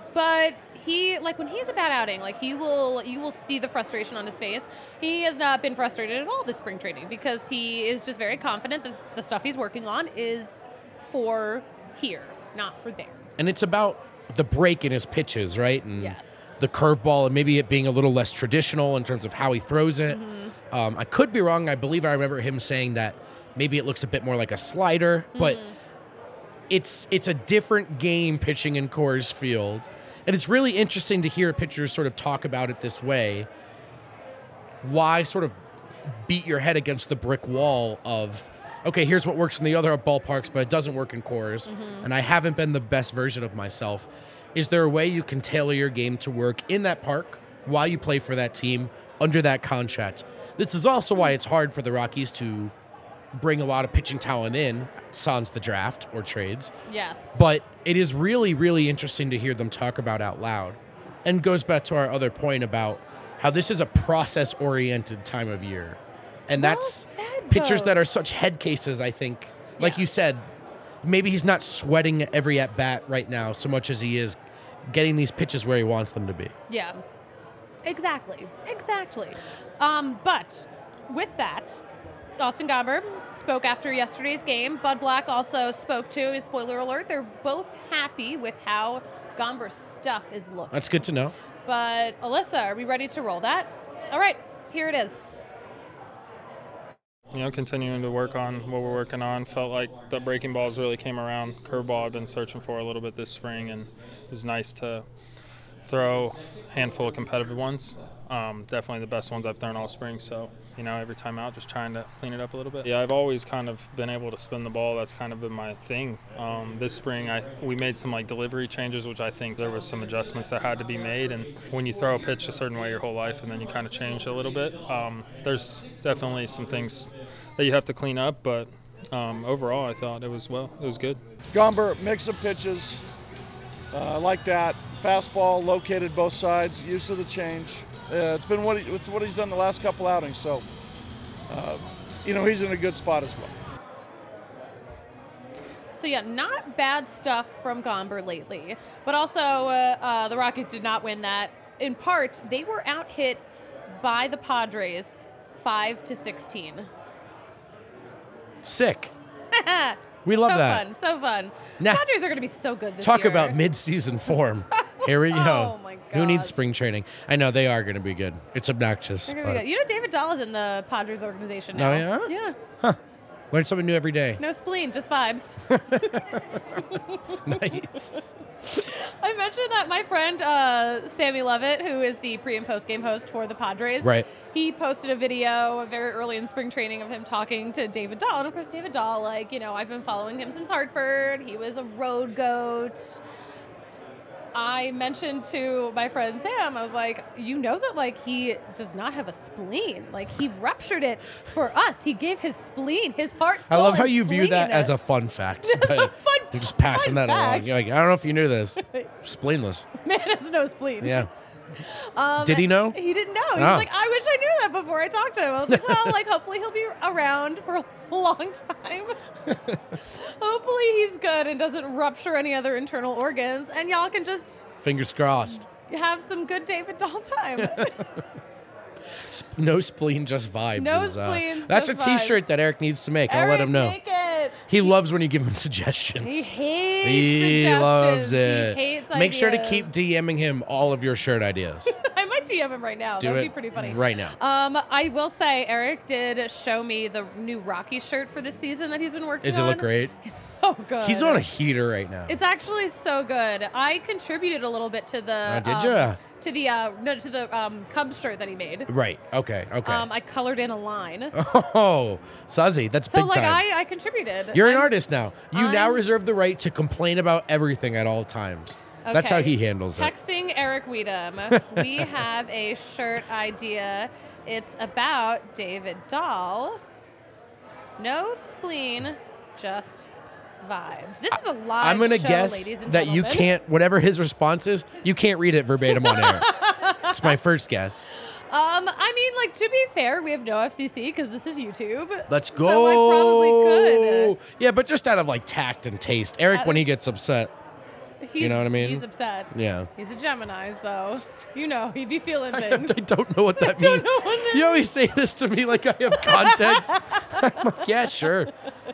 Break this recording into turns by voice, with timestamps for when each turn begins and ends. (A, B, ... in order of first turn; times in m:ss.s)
0:00.1-0:13.2 A
0:13.4-0:25.6 B
0:16.0-0:16.6 A
0:20.1-0:20.5 A
0:25.4-0:25.8 A
0:26.7-0:33.5 B
0:34.8-0:35.6 B
0:36.1-0:52.7 B
0:41.7-0:42.1 A
0:53.3-0:56.7 B
0:56.9-0:57.4 A
0:57.3-1:10.5 B
1:06.6-1:08.2 A
1:09.8-1:10.0 A
1:11.0-1:16.5 B
1:16.7-1:17.0 A
1:17.8-1:21.8 A
1:22.4-1:31.0 A
1:30.7-1:31.4 B
1:31.7-1:35.2 A
1:37.3-1:45.0 C
1:45.8-2:11.2 C
2:11.5-2:13.0 D
2:13.9-2:20.7 D
2:21.5-2:23.5 D
2:25.9-2:36.9 A
2:38.6-2:39.1 B
2:39.5-2:43.6 A
2:40.2-2:40.8 B
2:41.8-2:42.0 B
2:43.0-2:49.6 B
2:44.3-2:46.6 A
2:49.3-2:52.6 A
2:51.7-2:53.0 B
2:53.5-2:54.4 B
2:54.4-3:13.2 A
2:55.7-2:56.8 B
2:57.4-2:58.3 B
3:04.0-3:04.3 B
3:14.5-3:24.9 A
3:23.7-3:29.9 B
3:25.6-3:27.7 A
3:28.8-3:29.1 A
3:30.0-3:31.3 A
3:31.0-3:31.3 B
3:31.8-3:39.2 A
3:32.4-3:33.0 B
3:33.5-3:33.9 B
3:35.7-3:36.2 B
3:39.5-3:40.0 B
3:40.0-3:44.7 A
3:44.8-3:45.7 B
3:45.7-3:48.0 A
3:47.6-3:48.0 B
3:49.3-3:54.0 B
3:50.8-3:52.4 A
3:53.3-3:54.9 A
3:54.7-3:56.5 B
3:56.2-3:59.9 A
3:57.0-4:02.0 B
4:01.9-4:11.5 A
4:03.2-4:04.4 B
4:09.4-4:10.1 B
4:11.0-4:12.4 B
4:12.3-4:18.9 A
4:15.5-4:16.2 B
4:18.9-4:20.1 B
4:19.8-4:21.4 A
4:21.3-4:23.6 B
4:23.1-4:24.9 A
4:24.5-4:30.1 B
4:25.5-4:26.0 A
4:29.0-4:36.8 A
4:31.5-4:32.1 B
4:38.0-4:40.1 A
4:40.6-4:43.5 A
4:41.8-4:48.1 B
4:45.9-4:47.4 A
4:48.3-4:54.4 A
4:52.3-4:57.5 B
4:56.5-4:56.9 A
4:58.2-5:03.0 A
4:58.4-4:59.9 B
5:02.5-5:08.5 B
5:03.6-5:04.9 A
5:06.1-5:07.9 A